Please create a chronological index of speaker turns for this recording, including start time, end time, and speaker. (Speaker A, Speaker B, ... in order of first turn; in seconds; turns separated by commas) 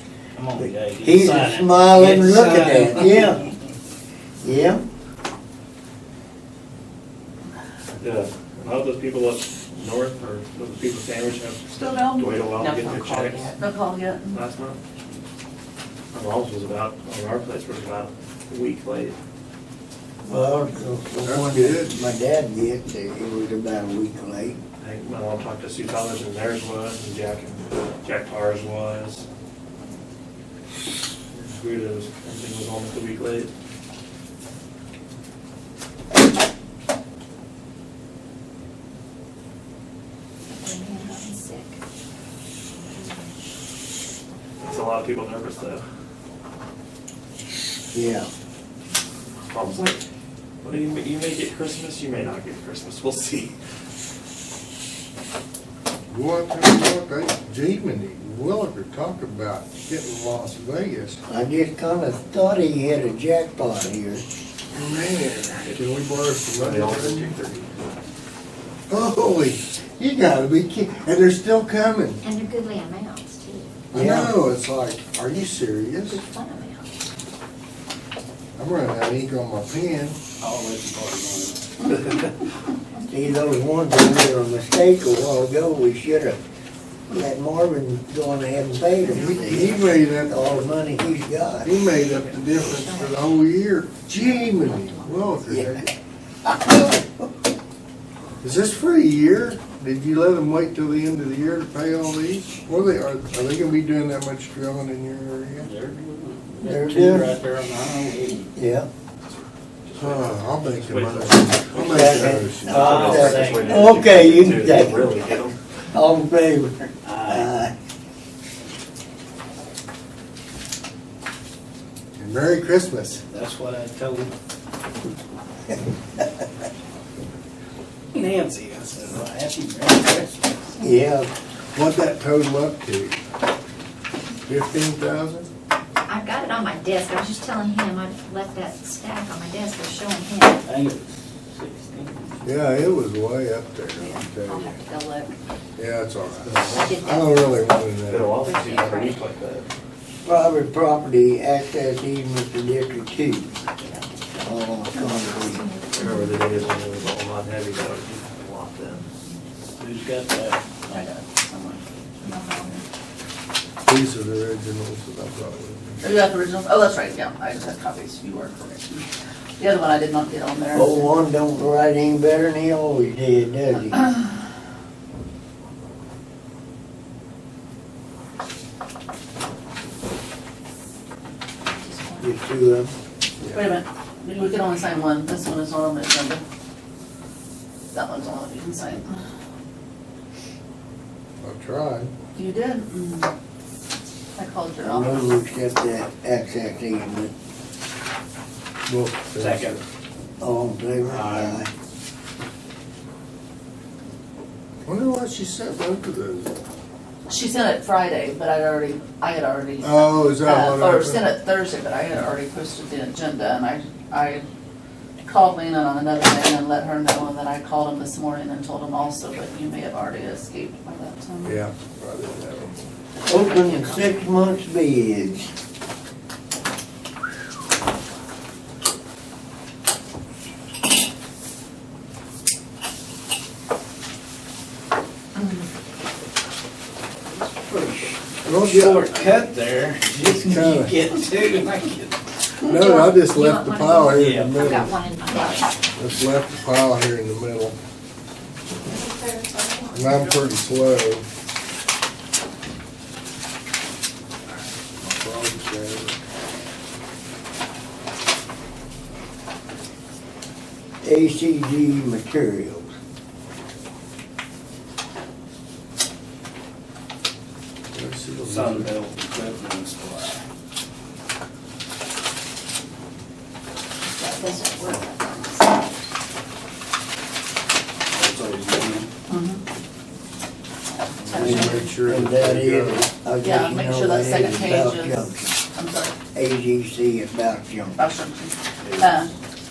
Speaker A: 0.3-3.5, Speaker B: 0.5-3.4, Speaker B: 4.4-4.8, Speaker C: 8.0-13.6, Speaker D: 11.8-13.5, Speaker E: 13.6-14.4, Speaker C: 14.3-14.8, Speaker C: 16.1-19.1, Speaker B: 20.2-24.6, Speaker F: 21.2-22.0, Speaker C: 24.8-29.2, Speaker C: 31.3-33.5, Speaker D: 40.5-41.8, Speaker D: 42.8-43.2, Speaker C: 44.6-45.8, Speaker B: 47.8-48.3, Speaker C: 49.5-50.0, Speaker C: 50.6-53.6, Speaker F: 56.1-61.2, Speaker B: 61.3-64.2, Speaker F: 64.7-67.4, Speaker C: 66.5-67.8, Speaker F: 68.9-72.2, Speaker D: 72.2-73.8, Speaker F: 73.9-76.2, Speaker B: 73.9-74.3, Speaker D: 76.1-76.8, Speaker F: 78.6-80.2, Speaker A: 80.4-82.3, Speaker B: 83.1-86.4, Speaker B: 87.1-91.8, Speaker F: 89.1-90.7, Speaker F: 91.6-95.9, Speaker C: 92.0-92.4, Speaker D: 92.5-93.4, Speaker D: 94.4-95.3, Speaker B: 95.5-95.9, Speaker B: 96.4-97.3, Speaker F: 98.4-105.7, Speaker A: 105.6-108.5, Speaker B: 106.6-107.3, Speaker B: 108.5-108.9, Speaker C: 109.2-115.8, Speaker F: 110.0-112.9, Speaker B: 111.8-115.3, Speaker A: 112.6-114.0, Speaker B: 115.9-117.7, Speaker A: 117.0-117.5, Speaker F: 122.2-123.2, Speaker A: 123.3-124.3, Speaker A: 128.1-130.7, Speaker B: 130.8-131.3, Speaker F: 131.7-133.2, Speaker F: 134.4-135.5, Speaker D: 136.1-140.6, Speaker A: 140.6-142.4, Speaker F: 142.4-144.8, Speaker D: 144.0-145.4, Speaker F: 145.8-148.9, Speaker C: 146.4-147.0, Speaker D: 146.8-147.6, Speaker C: 148.1-149.7, Speaker D: 148.4-149.2, Speaker B: 150.2-153.5, Speaker B: 154.4-155.6, Speaker D: 154.9-156.4, Speaker C: 155.9-159.1, Speaker A: 159.8-160.6, Speaker E: 160.9-162.8, Speaker F: 163.8-166.2, Speaker E: 166.0-169.0, Speaker E: 169.6-171.1, Speaker B: 170.7-174.1, Speaker D: 181.8-182.1, Speaker B: 182.2-182.9, Speaker E: 183.5-186.4, Speaker E: 187.9-189.2, Speaker F: 191.4-192.1, Speaker E: 192.3-193.3, Speaker E: 194.3-195.3, Speaker B: 194.8-197.3, Speaker F: 198.9-199.8, Speaker A: 199.4-199.8, Speaker B: 200.4-201.7, Speaker A: 201.0-201.6, Speaker F: 204.8-206.5, Speaker E: 207.3-214.4, Speaker F: 209.8-211.3, Speaker E: 215.2-221.6, Speaker F: 221.4-222.7, Speaker B: 223.2-225.5, Speaker E: 223.3-224.1, Speaker B: 237.4-238.2, Speaker F: 238.4-239.1, Speaker A: 238.5-242.2, Speaker F: 240.2-241.0, Speaker F: 242.6-244.9, Speaker D: 242.7-245.7, Speaker A: 244.2-244.7, Speaker F: 245.9-247.8, Speaker D: 248.9-250.4, Speaker F: 249.9-251.2, Speaker F: 255.0-256.2, Speaker B: 261.0-262.9, Speaker F: 267.9-268.9, Speaker A: 268.4-270.4, Speaker D: 274.1-275.9, Speaker A: 278.1-279.1, Speaker E: 279.3-279.6, Speaker E: 281.2-281.8, Speaker F: 281.3-283.1, Speaker B: 281.4-285.6, Speaker E: 283.4-286.1, Speaker B: 286.3-288.0, Speaker E: 288.0-289.3, Speaker A: 288.8-289.2